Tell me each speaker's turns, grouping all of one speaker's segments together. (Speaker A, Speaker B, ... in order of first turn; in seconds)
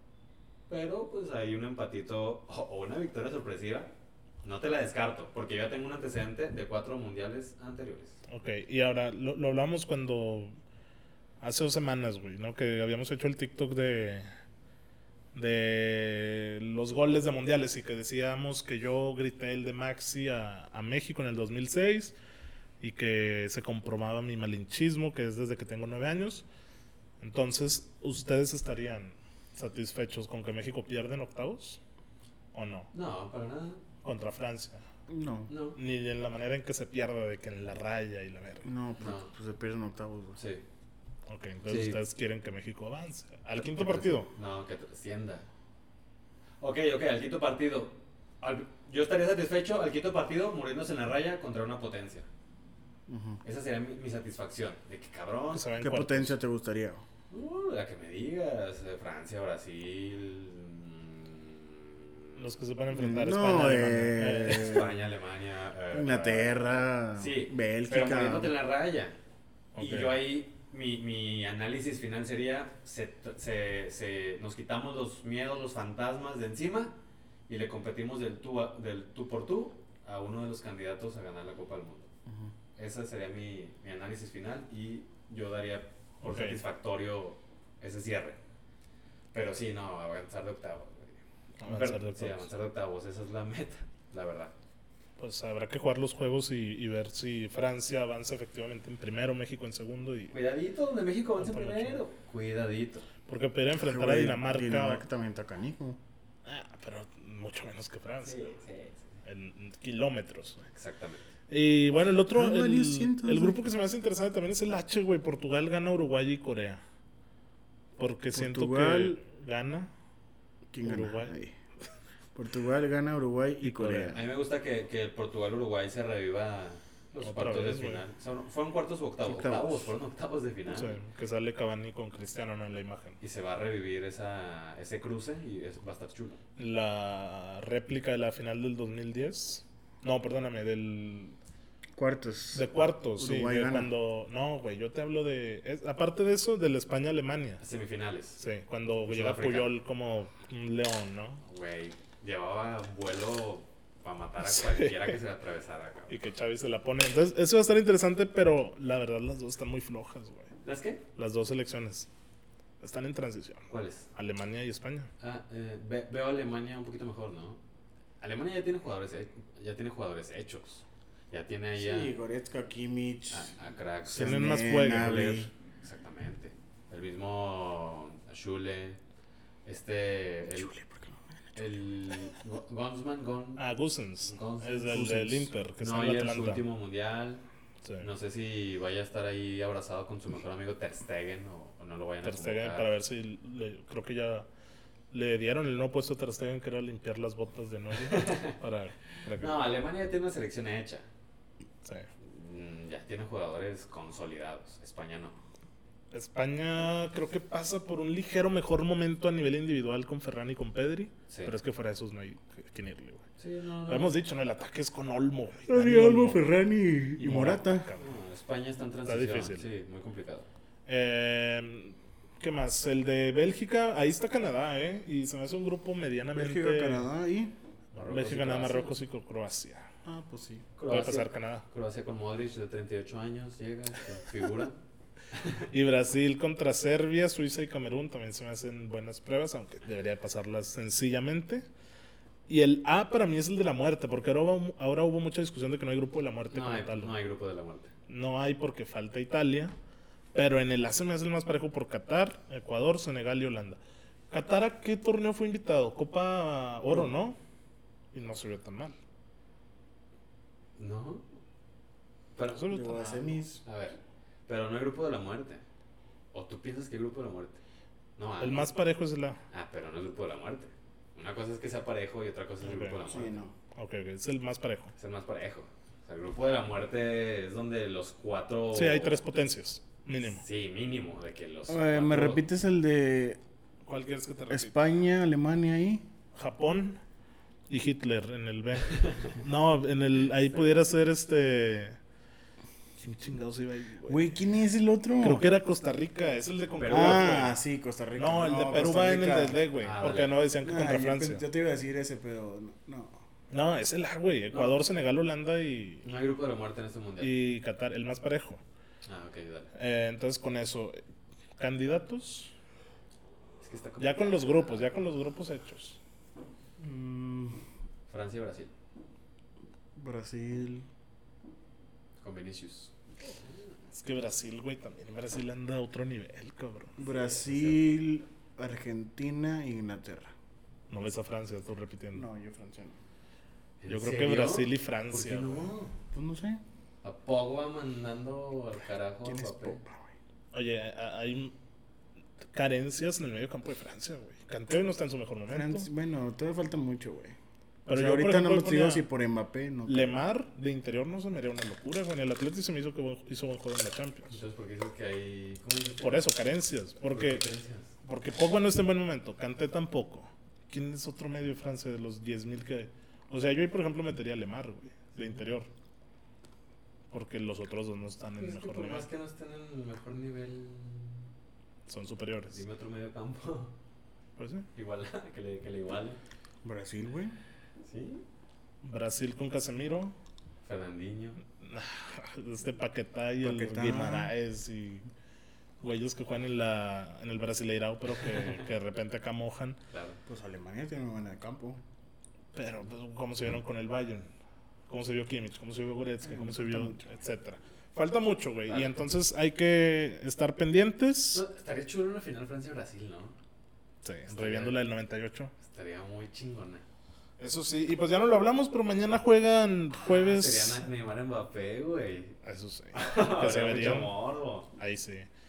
Speaker A: 0.7-3.9, 4.4-8.2, 32.9-33.8, 35.5-35.8, 39.0-39.3, 40.4-40.6, 41.7-42.0, 43.7-45.5, 46.6-52.3, 53.4-55.7, 57.3-61.9, 64.4-69.2, 69.8-76.9, 77.5-82.1, 82.8-88.4, 89.3-94.5, 100.3-103.1, 108.2-109.2, 110.7-111.3, 124.1-131.0, 133.2-136.4, 147.6-148.4, 149.1-149.7, 151.4-156.1, 160.6-161.0, 163.7-164.1, 165.2-167.6, 168.2-172.1, 173.3-174.5, 175.8-179.0, 179.6-180.7, 181.6-183.6, 184.2-185.2, 185.8-187.4, 188.0-192.9, 198.0-198.6, 199.4-201.1, 202.2-205.4, 213.4-214.1, 218.0-220.5, 227.9-228.9, 230.8-234.8, 235.3-235.7, 246.5-247.9, 260.8-261.2, 262.4-265.6, 266.3-267.6, 268.2-268.7, 269.5-273.4, 275.0-279.2, 280.2-282.4, 288.9-289.2, 296.8-297.5, 299.8-300.4, 304.5-304.8, 306.0-307.4, 309.1-309.7, 313.6-314.8, 318.1-318.7, 322.2-323.6, 327.0-327.9, 333.8-335.9, 337.0-339.8, 354.3-356.3, 357.0-357.9, 368.4-371.3, 372.5-373.7, 374.8-376.2, 377.8-378.2, 380.6-381.4, 388.3-388.6, 389.9-390.2, 398.7-398.9, 401.3-403.4, 404.3-404.8, 405.6-406.8, 410.0-412.4, 412.9-414.7
Speaker B: 8.3-10.5, 11.4-14.3, 15.3-22.1, 22.8-26.4, 27.2-31.8, 32.5-32.9, 34.0-34.8, 35.8-38.7, 41.3-44.3, 55.5-56.4, 62.4-64.9, 69.8-70.2, 86.2-86.6, 91.6-92.5, 95.2-100.3, 101.4-102.0, 103.3-105.0, 106.5-108.5, 109.2-110.7, 111.5-116.8, 118.0-119.9, 120.8-121.3, 123.6-124.2, 127.2-128.1, 130.7-133.2, 136.6-141.4, 142.5-147.6, 148.4-151.4, 154.4-155.1, 156.1-160.5, 161.1-162.1, 162.8-165.1, 174.1-175.5, 183.6-186.6, 192.2-194.5, 195.1-199.6, 201.8-202.1, 206.1-213.2, 213.9-216.5, 217.2-218.1, 219.1-219.7, 220.9-227.1, 228.0-229.9, 230.9-231.6, 235.7-241.7, 242.5-247.1, 248.1-249.7, 250.3-253.8, 254.3-257.4, 258.1-259.0, 262.5-263.2, 268.4-269.4, 272.6-273.1, 273.8-274.9, 278.7-280.4, 283.9-284.8, 286.3-287.0, 287.7-292.0, 293.0-294.3, 295.2-297.6, 298.2-301.4, 303.5-306.1, 307.2-308.6, 309.7-311.0, 311.6-312.5, 314.0-316.0, 323.9-327.0, 330.9-332.3, 333.9-335.7, 340.5-341.5, 342.5-345.9, 347.9-349.1, 349.9-354.4, 356.0-357.4, 358.0-365.7, 367.1-369.1, 371.9-372.6, 374.4-374.7, 378.8-380.1, 381.6-385.1, 385.8-389.8, 392.5-394.3, 394.9-401.4, 404.0-405.5, 407.4-410.8, 412.4-414.2, 414.8-415.3
Speaker C: 35.1-35.5, 38.6-40.4, 53.1-53.4, 55.8-57.0, 62.9-65.0, 65.9-68.5, 82.3-82.5, 103.8-106.0, 112.3-113.6, 118.3-119.2, 120.7-121.6, 122.3-124.2, 129.2-129.9, 142.0-143.9, 171.8-173.5, 174.1-175.5, 180.6-181.5, 184.9-185.5, 215.7-217.9, 226.3-227.5, 230.1-230.7, 262.7-263.6, 273.1-273.5, 281.7-283.4, 284.5-286.1, 294.1-295.5, 296.9-299.6, 300.6-303.2, 316.8-317.6, 319.9-320.9, 327.0-330.3, 332.1-333.0, 336.1-336.6, 339.2-340.1, 345.5-347.4, 347.9-350.2, 376.6-377.4, 383.4-384.3, 390.3-391.8, 396.2-397.1